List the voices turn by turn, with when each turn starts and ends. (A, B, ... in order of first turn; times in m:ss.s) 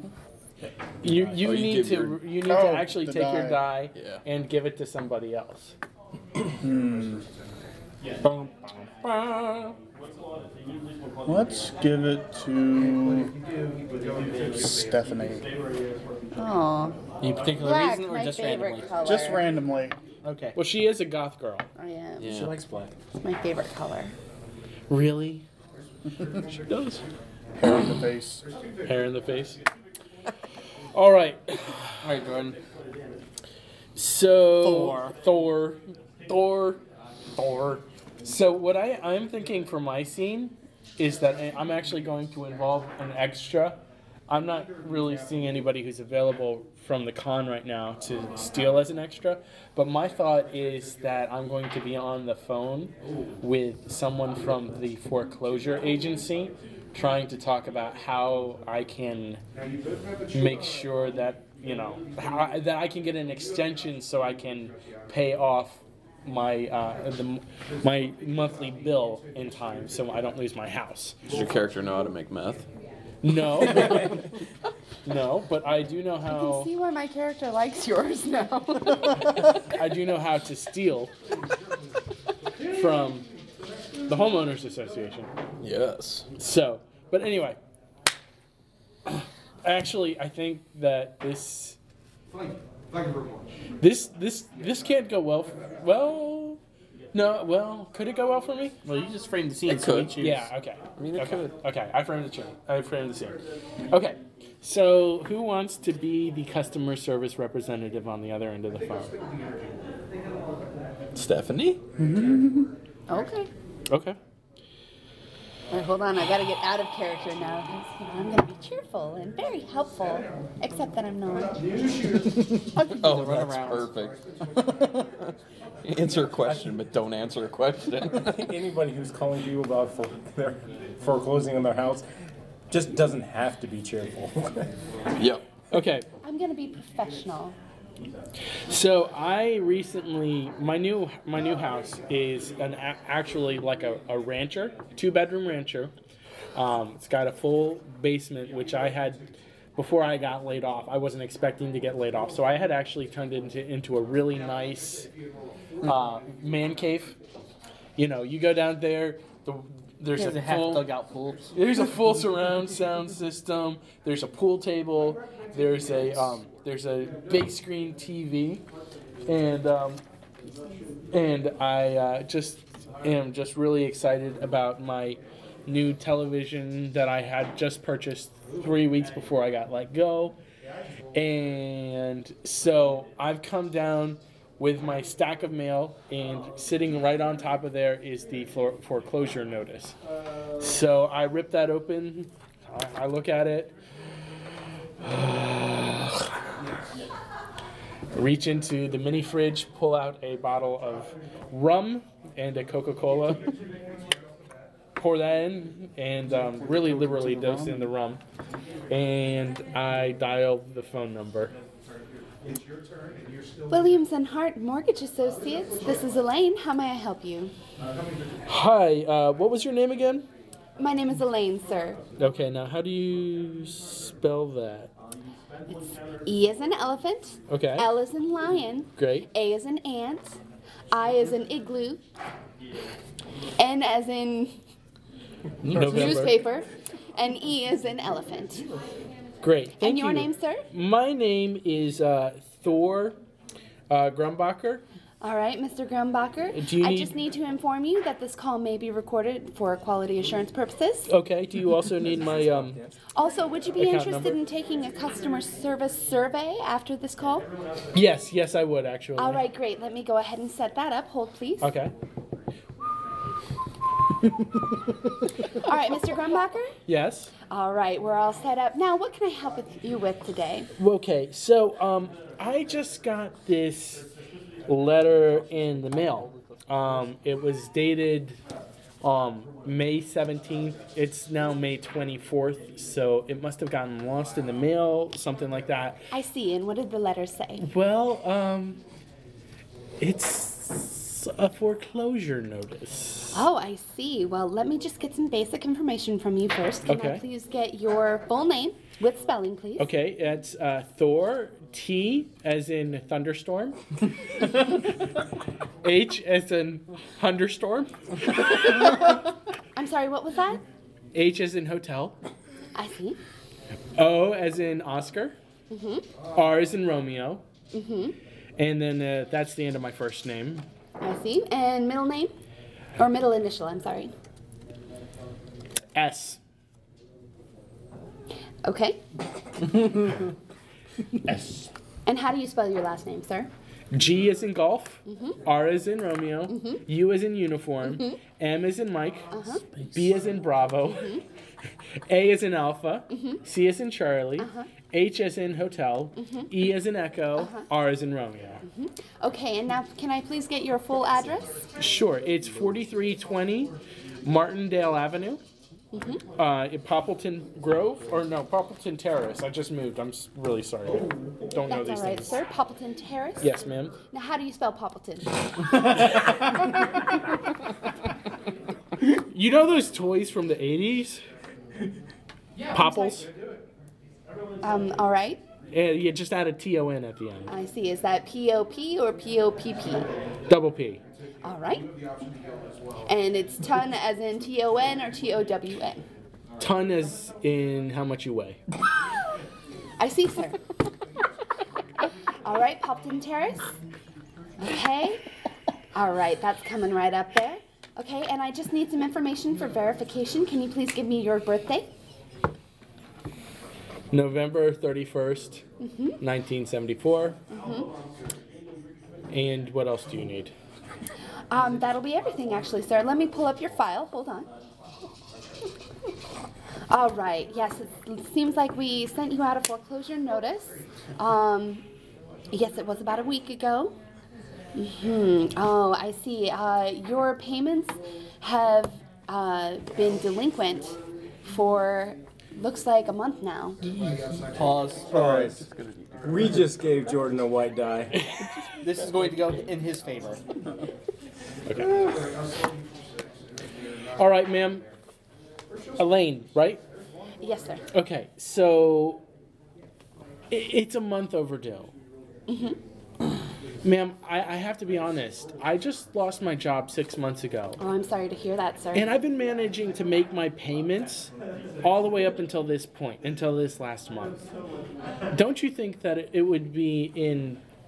0:01.0-0:05.7 A
0:01.1-0:02.2 B
0:02.4-0:03.6 C
0:03.9-0:04.2 B
0:06.6-0:07.2 C
0:08.2-0:09.7 A
0:11.2-0:13.3 C
0:14.5-0:15.4 C
0:16.4-0:17.0 D
0:17.2-0:18.9 E
0:17.6-0:19.4 D
0:19.0-0:20.0 C
0:20.2-0:20.6 E
0:20.5-0:21.7 A
0:21.8-0:22.4 D
0:22.2-0:22.6 B
0:23.2-0:24.1 D
0:24.9-0:25.4 A
0:26.7-0:27.0 B
0:27.6-0:28.4 C
0:28.8-0:29.6 A
0:30.9-0:32.0 A
0:32.0-0:32.6 E
0:34.0-0:36.8 A
0:34.6-0:35.1 E
0:37.4-0:59.4 A
1:00.3-1:11.2 A
1:11.3-1:12.6 B
1:13.2-1:14.1 A
1:15.0-1:16.7 A
1:16.3-1:19.4 D
1:19.7-1:21.1 A
1:22.6-1:23.3 A
1:24.1-1:25.3 A
1:25.6-1:26.3 B
1:26.4-1:27.6 A
1:29.1-1:31.8 A
1:33.8-1:36.6 A
1:37.1-1:38.8 A
1:38.8-1:40.5 E
1:39.7-1:40.2 B
1:40.2-1:43.4 A
1:41.0-1:41.5 B
1:43.9-1:49.2 A
1:51.1-1:51.8 B
1:52.0-1:52.7 C
1:53.1-1:53.5 D
1:53.9-1:54.2 A
1:55.7-2:01.6 D
2:02.7-2:03.9 E
2:02.9-2:04.2 B
2:05.8-2:08.5 B
2:08.2-2:12.0 F
2:12.7-2:14.7 F
2:15.2-2:15.4 B
2:15.7-2:16.0 A
2:16.2-2:17.6 D
2:18.7-2:25.9 A
2:26.5-2:35.1 A
2:35.8-2:37.2 A
2:38.0-2:40.9 A
2:40.2-2:41.5 E
2:41.5-2:48.6 A
2:49.3-2:50.0 A
2:51.1-3:00.4 A
3:01.1-3:10.0 A
3:10.6-3:13.7 A
3:15.0-3:16.3 A
3:18.1-3:23.5 A
3:25.0-3:28.2 A
3:26.5-3:27.8 C
3:28.9-3:31.5 A
3:33.7-3:37.5 D
3:38.5-3:40.3 A
3:40.8-3:42.0 D
3:42.2-3:44.9 A
3:46.2-3:50.4 D
3:47.5-3:47.9 A
3:49.0-3:49.3 A
3:50.9-3:52.0 D
3:53.6-3:54.5 D
3:55.7-3:56.1 E
3:55.7-3:56.4 A
3:55.8-3:58.6 D
3:59.4-4:03.2 A
3:59.8-4:00.6 D
4:03.9-4:04.8 A
4:05.2-4:11.1 D
4:06.5-4:07.1 A
4:11.1-4:12.8 A
4:12.2-4:12.5 F
4:13.1-4:17.5 D
4:13.8-4:14.4 A
4:17.9-4:19.4 A
4:19.2-4:21.7 D
4:21.6-4:21.9 A
4:25.5-4:26.7 D
4:26.8-4:27.3 A
4:27.5-4:30.7 D
4:30.8-4:34.0 A
4:34.7-4:38.4 A
4:39.0-4:46.0 A
4:46.1-4:47.6 D
4:47.6-4:48.8 A
4:50.0-4:53.4 A
4:53.3-4:59.9 D
4:56.9-4:57.2 A
4:59.8-5:03.8 A
5:05.8-5:07.9 A
5:09.8-5:10.6 D
5:11.1-5:12.2 A
5:12.7-5:13.2 D
5:14.0-5:15.4 A
5:15.7-5:16.1 D
5:16.3-5:17.4 A
5:17.7-5:18.2 D
5:18.6-5:20.7 A
5:21.0-5:22.3 D
5:23.0-5:24.1 D
5:25.9-5:26.4 A
5:28.6-5:29.0 D
5:32.0-5:33.5 D
5:33.9-5:41.2 A
5:35.0-5:35.4 D
5:36.5-5:36.8 D
5:37.8-5:38.2 D
5:39.3-5:39.6 D
5:40.9-5:41.2 D
5:42.1-5:48.6 A
5:43.1-5:43.4 D
5:44.4-5:44.7 D
5:46.2-5:46.5 D
5:47.4-5:47.7 D
5:48.6-5:51.5 D
5:51.8-5:53.7 A
5:54.2-5:55.4 A
5:55.9-5:56.2 D
5:56.4-6:02.4 A
6:01.6-6:03.5 D
6:03.4-6:03.9 A
6:04.1-6:05.9 D
6:05.9-6:06.7 A
6:09.0-6:11.2 A
6:12.7-6:13.3 A
6:12.7-6:13.1 D
6:14.6-6:15.4 D
6:15.7-6:17.5 A
6:17.5-6:20.1 D
6:20.5-6:21.0 A
6:21.4-6:21.9 D
6:23.1-6:26.0 D
6:26.6-6:28.6 A
6:30.0-6:30.6 D
6:32.4-6:33.7 D
6:34.6-6:35.2 D
6:35.9-6:41.9 D
6:44.1-6:45.6 A
6:45.8-6:46.2 D
6:46.2-6:47.4 A
6:47.5-6:47.9 D
6:49.3-6:50.5 A
6:51.5-6:54.5 D
6:56.9-7:01.8 D
7:02.5-7:03.9 D
7:04.7-7:13.8 D
7:13.8-7:14.4 A
7:14.5-7:15.6 E
7:15.1-7:16.9 B
7:16.2-7:18.1 F
7:18.1-7:18.5 A
7:18.8-7:20.4 E
7:18.9-7:19.2 B
7:24.2-7:24.8 A
7:26.0-7:26.8 A
7:27.4-7:27.8 D
7:27.9-7:29.2 A
7:30.5-7:31.9 A
7:32.5-7:32.8 D
7:33.8-7:37.8 A
7:37.8-7:39.1 D
7:38.9-7:44.5 A
7:45.3-7:47.6 A